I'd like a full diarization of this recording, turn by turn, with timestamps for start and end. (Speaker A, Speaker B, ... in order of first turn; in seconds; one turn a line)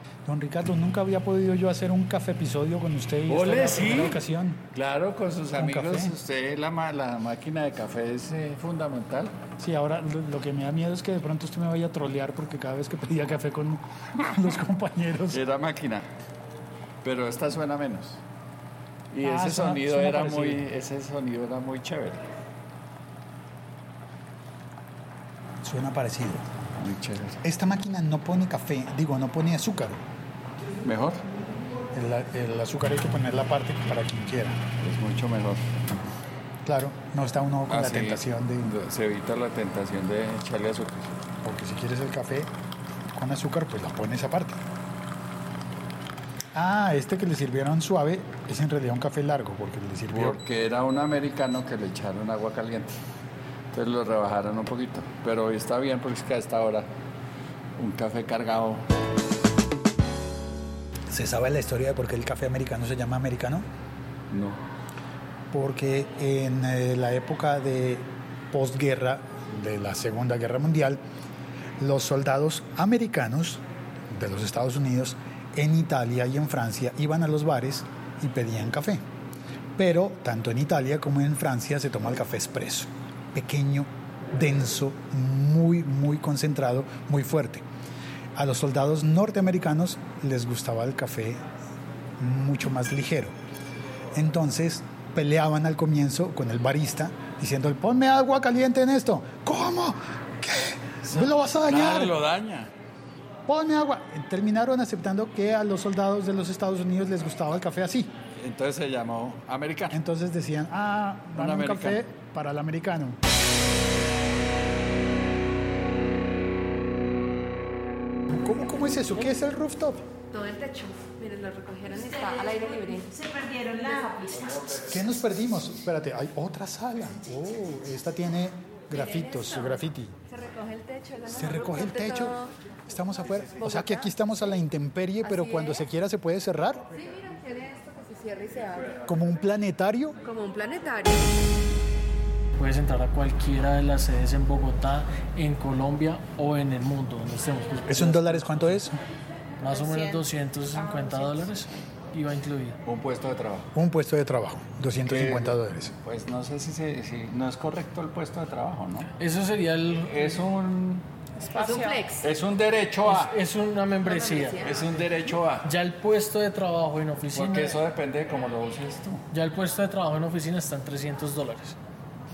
Speaker A: 0.3-4.6
Speaker B: 3.3-4.2
Speaker B: 4.7-9.3
Speaker A: 5.6-6.2
Speaker A: 9.6-15.4
Speaker B: 15.3-16.1
Speaker B: 17.0-18.2
Speaker B: 19.1-22.2
Speaker A: 19.2-20.6
Speaker A: 25.6-26.4
Speaker B: 26.8-27.4
Speaker A: 27.4-30.0
Speaker B: 30.8-31.2
Speaker A: 31.9-34.6
Speaker B: 34.8-35.8
Speaker A: 36.6-38.7
Speaker B: 37.7-41.1
Speaker A: 41.4-42.5
Speaker A: 43.1-44.6
Speaker A: 46.5-50.4
Speaker B: 50.1-53.0
Speaker B: 53.7-56.9
Speaker B: 57.8-58.8
Speaker A: 61.1-63.7
Speaker B: 64.3-64.6
Speaker A: 65.5-71.0
Speaker A: 71.8-79.0
Speaker A: 79.8-87.7
Speaker A: 88.3-91.4
Speaker A: 92.2-93.4
Speaker A: 94.1-102.2
Speaker B: 101.1-102.7
Speaker A: 103.5-108.1
Speaker B: 108.4-110.0
Speaker A: 109.9-113.2
Speaker B: 111.4-112.0
Speaker A: 118.3-120.0
Speaker C: 120.3-123.1
Speaker D: 123.1-124.8
Speaker A: 124.9-130.1
Speaker C: 128.9-132.5
Speaker A: 131.3-136.9
Speaker C: 133.6-134.1
Speaker C: 135.2-135.8
Speaker C: 136.9-139.0
Speaker A: 139.1-140.2
Speaker C: 140.2-141.4
Speaker E: 142.6-148.7
Speaker A: 147.9-149.0
Speaker E: 149.6-152.8
Speaker D: 149.7-151.6
Speaker B: 152.8-153.7
Speaker A: 153.8-155.9
Speaker B: 155.1-159.1
Speaker E: 159.2-160.4
Speaker B: 160.0-161.1
Speaker D: 161.4-162.2
Speaker C: 161.5-162.3
Speaker B: 162.2-163.3
Speaker E: 163.0-164.6
Speaker C: 164.0-164.8
Speaker B: 164.6-165.7
Speaker E: 165.6-167.8
Speaker B: 167.3-169.2
Speaker E: 169.3-171.8